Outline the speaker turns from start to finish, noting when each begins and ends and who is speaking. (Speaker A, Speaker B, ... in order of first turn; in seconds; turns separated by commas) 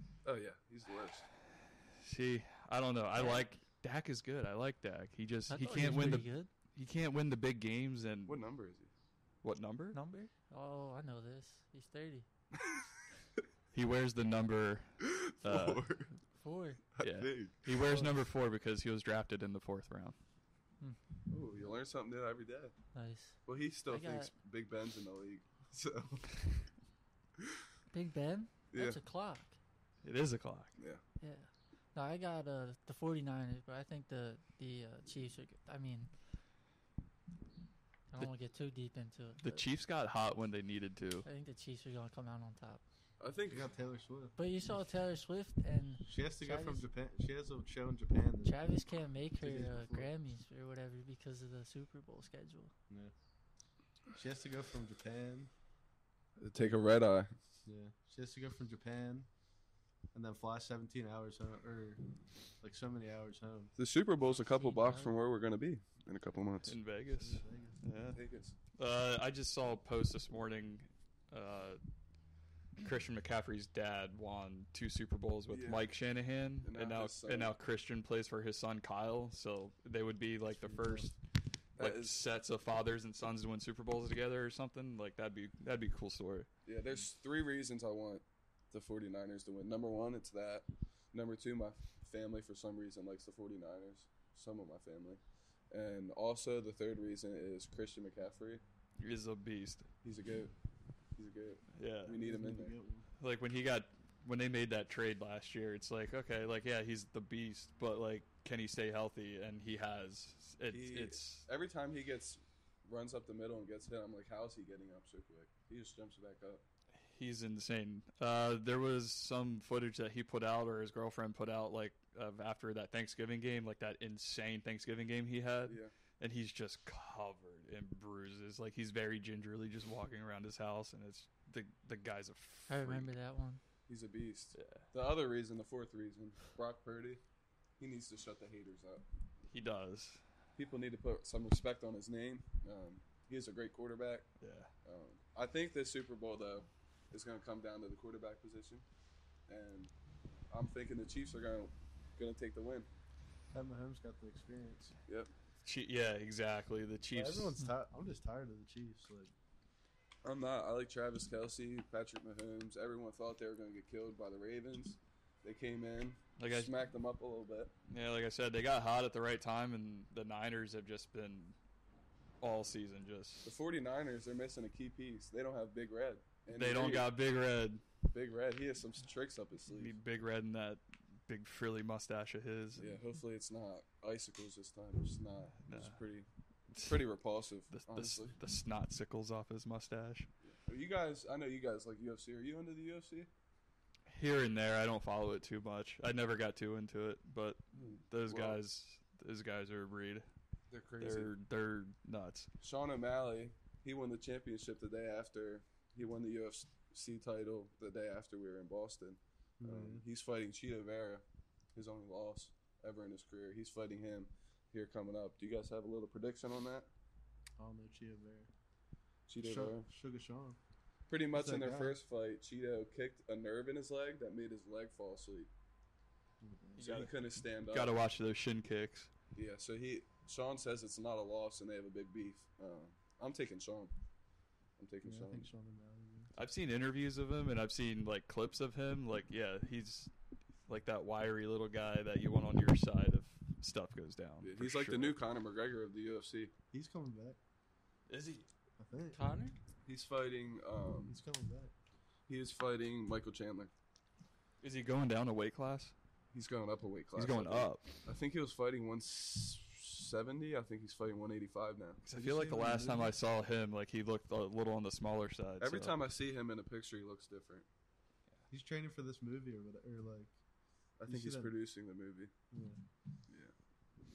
Speaker A: 0.2-1.3, Speaker B: 2.0-8.4, Speaker C: 3.2-3.4, Speaker C: 5.5-6.5, Speaker A: 8.3-8.9, Speaker B: 9.4-10.0, Speaker C: 9.9-12.3, Speaker B: 13.7-15.9, Speaker A: 15.0-16.1, Speaker C: 16.4-16.8, Speaker A: 16.9-17.6, Speaker B: 17.0-20.1, Speaker A: 21.3-22.7, Speaker C: 22.9-24.3, Speaker A: 23.4-26.3, Speaker C: 27.9-29.6, Speaker A: 28.7-29.0, Speaker B: 30.0-30.7, Speaker C: 31.2-36.1, Speaker C: 38.1-39.6, Speaker B: 39.4-41.2, Speaker C: 41.2-42.8, Speaker A: 43.2-43.7, Speaker D: 43.5-44.3, Speaker C: 44.4-46.9, Speaker D: 46.0-48.6, Speaker C: 48.4-52.7, Speaker D: 49.4-50.1, Speaker D: 54.1-55.5, Speaker A: 56.4-57.3, Speaker D: 57.6-59.3, Speaker D: 60.1-62.0, Speaker D: 62.6-63.7, Speaker A: 63.8-66.8, Speaker C: 64.3-65.1, Speaker B: 66.6-68.2, Speaker D: 67.1-67.8, Speaker A: 68.1-68.5, Speaker B: 68.8-71.8, Speaker B: 72.8-81.2, Speaker A: 75.5-75.9, Speaker A: 76.6-77.5, Speaker D: 80.6-81.1, Speaker A: 81.8-82.2, Speaker B: 81.8-86.5, Speaker A: 86.7-98.6, Speaker B: 99.0-99.9, Speaker A: 100.0-100.5, Speaker A: 101.2-102.8, Speaker B: 101.8-102.2, Speaker D: 102.2-103.1, Speaker B: 103.2-111.4, Speaker A: 110.7-116.6, Speaker B: 117.1-133.1, Speaker A: 125.7-125.9, Speaker C: 132.7-133.6, Speaker A: 133.9-137.2, Speaker B: 134.6-134.8, Speaker A: 137.8-139.1, Speaker B: 139.5-140.2, Speaker A: 140.6-144.3, Speaker B: 144.4-144.7, Speaker A: 144.8-148.8, Speaker A: 149.5-149.9, Speaker A: 150.5-152.9, Speaker D: 153.5-154.9, Speaker B: 155.6-157.6, Speaker D: 157.1-159.3, Speaker A: 160.2-167.7, Speaker B: 166.4-166.7, Speaker B: 167.9-171.6, Speaker B: 172.4-173.5, Speaker A: 173.4-177.1, Speaker B: 176.5-177.8, Speaker A: 178.1-179.9, Speaker B: 179.7-182.9, Speaker A: 182.8-186.2, Speaker B: 185.7-186.0, Speaker A: 186.8-188.4, Speaker B: 187.7-190.3, Speaker A: 190.4-193.3, Speaker B: 194.1-200.2, Speaker A: 197.7-198.6, Speaker A: 200.7-201.3, Speaker B: 201.0-202.5, Speaker A: 202.6-211.2, Speaker D: 209.6-210.0, Speaker A: 211.8-216.9, Speaker D: 217.6-218.5, Speaker A: 219.3-219.9, Speaker D: 219.4-220.6, Speaker A: 221.1-225.5, Speaker D: 221.3-222.0, Speaker D: 226.4-227.1, Speaker B: 226.8-227.1, Speaker A: 226.8-227.9, Speaker B: 227.7-229.1, Speaker A: 229.3-233.9, Speaker A: 234.8-235.5, Speaker D: 235.0-236.3, Speaker B: 236.3-240.1, Speaker B: 240.7-245.2, Speaker A: 244.4-246.5, Speaker D: 246.7-247.4, Speaker B: 248.1-248.5, Speaker D: 248.8-249.2, Speaker C: 249.1-249.6, Speaker A: 249.8-251.2, Speaker D: 251.1-251.7, Speaker A: 252.3-253.7, Speaker B: 254.6-255.9, Speaker A: 256.3-262.0, Speaker B: 257.2-257.8, Speaker B: 262.0-265.9, Speaker D: 262.1-263.1, Speaker A: 265.6-267.7, Speaker D: 268.5-270.3, Speaker A: 271.0-272.3, Speaker D: 271.1-271.5, Speaker D: 272.5-272.8, Speaker A: 273.3-273.5